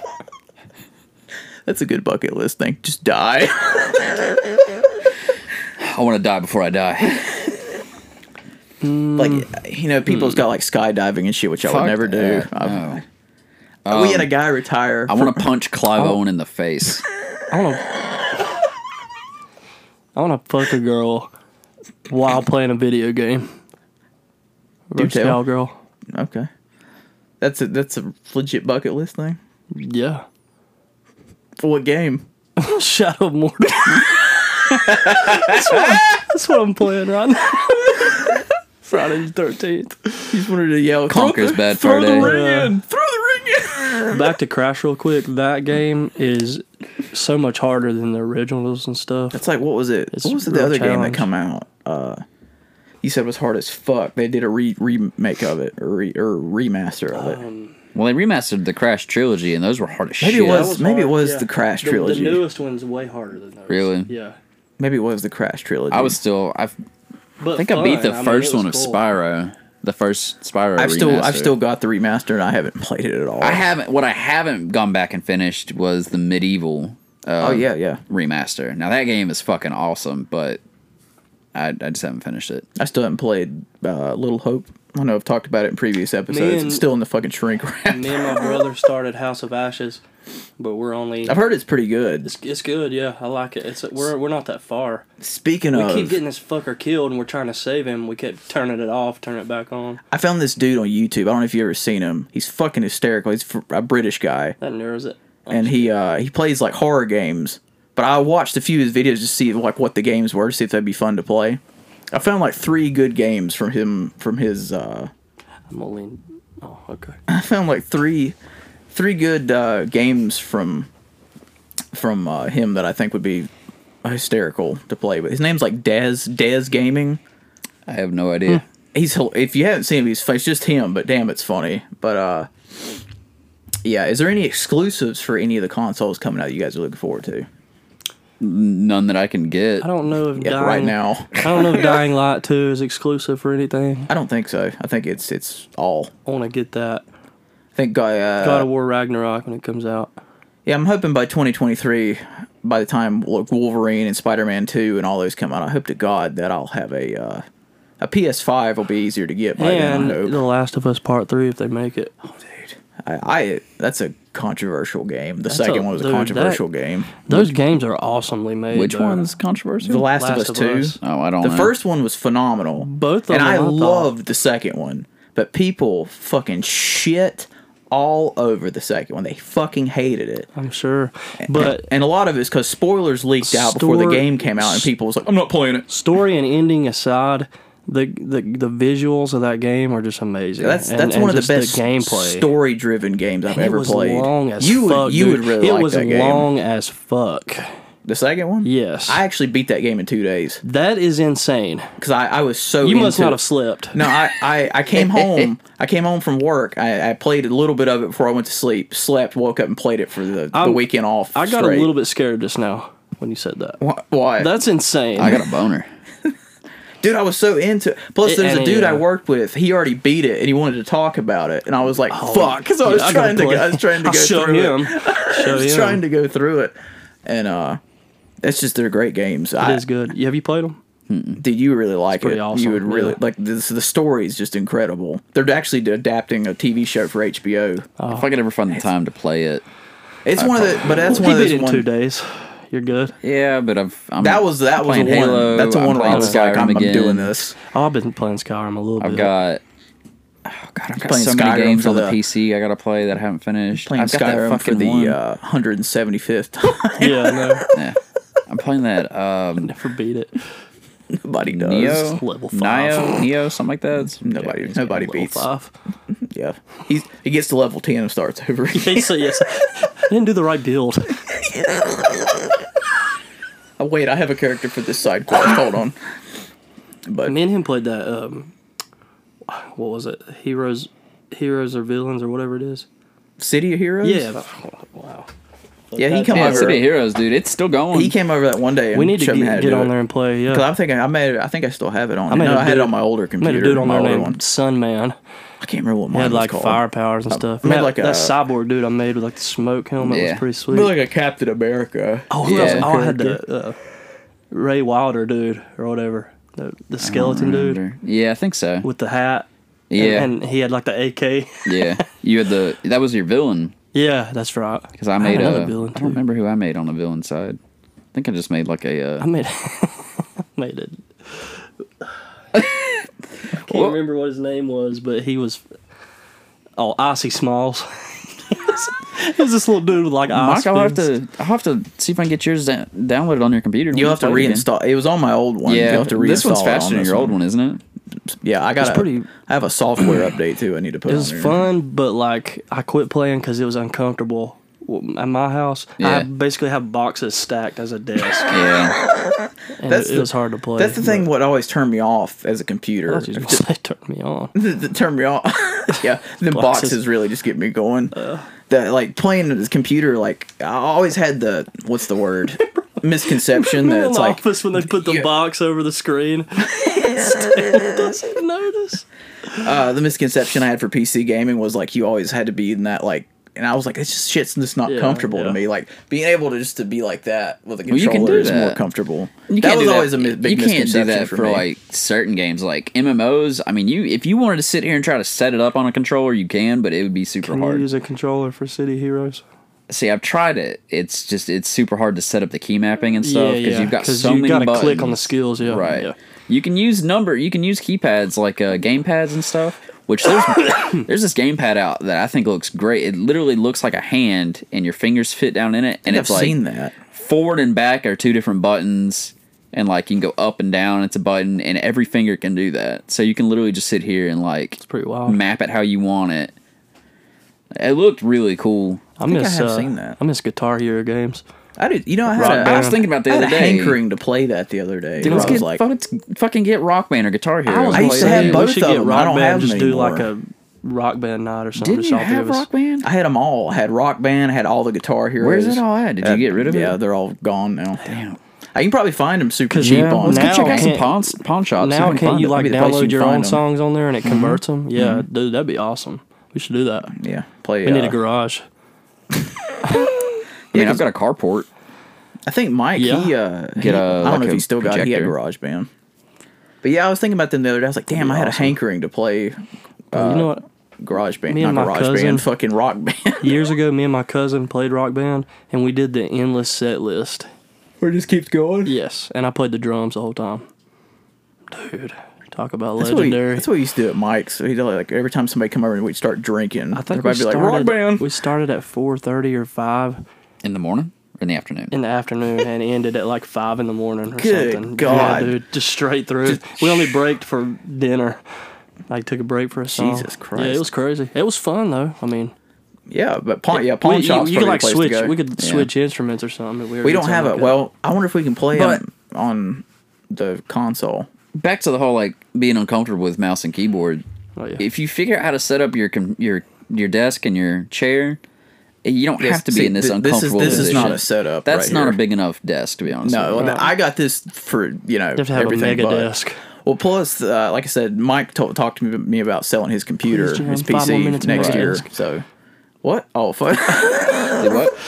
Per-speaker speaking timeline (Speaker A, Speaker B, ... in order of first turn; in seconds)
Speaker A: 1.6-4.2, 9.2-13.0, 13.9-15.5, 24.9-25.4, 26.1-26.5, 27.4-29.4, 31.6-32.2, 40.3-44.2, 49.3-52.2, 53.0-57.4, 60.2-62.4, 64.8-66.2, 70.8-73.7, 77.4-78.0, 82.8-88.6, 91.2-92.3, 95.2-96.2, 100.1-104.5, 105.5-111.6, 112.1-115.1, 117.3-118.3, 118.9-120.9, 121.9-123.5, 124.0-127.2, 128.9-132.9, 133.8-137.5, 140.4-141.8, 144.1-146.1, 147.8-148.7, 150.7-157.4, 158.0-160.4, 163.0-167.2, 169.8-180.5, 181.4-185.9, 190.6-196.5, 198.1-200.6, 202.0-203.4, 203.9-211.9, 213.8-214.5, 217.0-226.7, 227.2-227.8, 228.4-229.8, 231.4-237.9, 240.2-241.8, 244.2-247.5, 250.9-252.2, 253.7-257.7, 261.2-262.1, 264.2-265.5, 266.2-269.5, 273.8-275.9, 277.1-277.3, 283.4-284.3, 285.9-286.8, 287.9-289.9, 290.5-294.4, 295.6-298.4, 300.7-303.4, 333.9-337.4, 338.3-341.6, 349.9-353.6, 354.5-358.1, 358.7-365.3, 369.6-381.6, 406.1-406.9, 419.2-420.2, 421.8-425.8, 427.9-430.3, 433.0-438.1, 438.7-440.9, 442.4-443.6, 447.1-448.2, 450.7-451.0, 452.4-455.9, 456.8-459.6, 460.1-463.7, 468.0-468.9, 473.0-478.2, 484.3-485.6, 486.4-487.2, 489.9-490.9, 493.1-495.4, 497.0-501.3, 509.4-512.2, 513.2-516.3, 516.8-522.4, 523.0-524.6
Speaker B: 5.8-7.6, 11.6-13.0, 13.8-14.3, 15.1-17.0, 41.1-42.3, 57.9-60.7, 63.7-64.1, 65.9-66.8, 67.5-71.5, 73.4-80.6, 81.5-82.7, 127.8-128.6, 138.4-139.9, 168.7-170.1, 171.0-171.7, 204.9-205.5, 215.2-215.9, 231.1-231.4, 238.1-239.6, 240.3-240.9, 243.2-247.3, 249.0-249.6, 250.4-255.2, 257.7-259.7, 261.5-264.2, 286.3-288.1, 300.0-300.4, 302.4-302.9, 307.0-308.9, 309.9-310.3, 311.6-313.7, 315.0-317.6, 318.1-319.3, 322.5-323.0, 323.7-324.0, 330.3-334.6, 335.6-337.8, 346.0-346.3, 348.5-349.0, 377.9-378.8, 379.5-387.9, 389.9-406.6, 407.1-416.5, 417.7-419.0, 422.4-424.0, 425.2-428.6, 431.8-433.1, 435.4-437.0, 438.0-438.4, 439.8-442.5, 444.2-444.6, 450.7-451.7, 453.8-455.3, 458.2-458.5, 480.6-481.9, 495.6-495.9, 501.5-504.2, 504.8-508.4, 509.0-513.7, 521.5-521.9, 524.6-525.0
Speaker C: 8.8-9.5, 10.1-10.4, 17.5-18.0, 20.1-21.3, 22.1-23.5, 24.9-25.8, 29.7-30.2, 32.6-40.3, 42.0-42.8, 44.1-49.4, 50.1-51.3, 57.1-57.7, 60.3-64.4, 67.4-69.0, 86.3-86.8, 87.9-90.0, 90.6-91.3, 92.2-95.0, 95.7-100.0, 104.6-105.9, 115.7-117.2, 139.8-144.1, 146.2-147.0, 148.4-150.1, 159.6-162.2, 165.5-166.6, 167.2-169.3, 169.9-171.0, 172.8-174.1, 180.5-181.9, 183.4-184.9, 185.9-192.5, 193.5-197.7, 198.6-199.2, 200.6-201.9, 202.8-204.1, 210.5-213.8, 214.4-215.5, 218.2-219.1, 222.1-226.0, 229.6-230.8, 232.2-233.2, 238.0-238.3, 240.9-243.2, 246.0-246.4, 247.6-249.3, 257.0-257.7, 259.6-260.4, 261.8-263.3, 264.2-265.7, 268.7-271.2, 277.2-278.5, 279.4-282.9, 284.0-285.3, 285.9-286.8, 288.9-290.7, 292.3-295.1, 296.1-300.9, 302.3-303.8, 304.5-307.8, 308.8-312.1, 313.9-316.2, 319.2-322.1, 323.5-325.6, 326.8-331.1, 338.8-339.3, 341.1-348.6, 349.8-351.3, 353.1-354.5, 356.5-357.0, 358.1-358.5, 363.4-369.0, 374.9-375.6, 387.4-389.4, 393.2-396.1, 414.8-415.4, 419.2-421.4, 422.3-423.1, 425.2-425.6, 427.6-432.7, 439.7-447.1, 447.8-448.6, 452.9-453.3, 458.4-458.7, 460.1-460.6, 461.5-462.4, 463.4-467.5, 468.9-470.6, 471.7-473.7, 476.9-480.2, 481.9-488.4, 489.1-492.5, 493.7-497.8, 504.6-504.8, 510.6-511.2, 513.6-513.9, 515.4-516.6, 520.3-522.1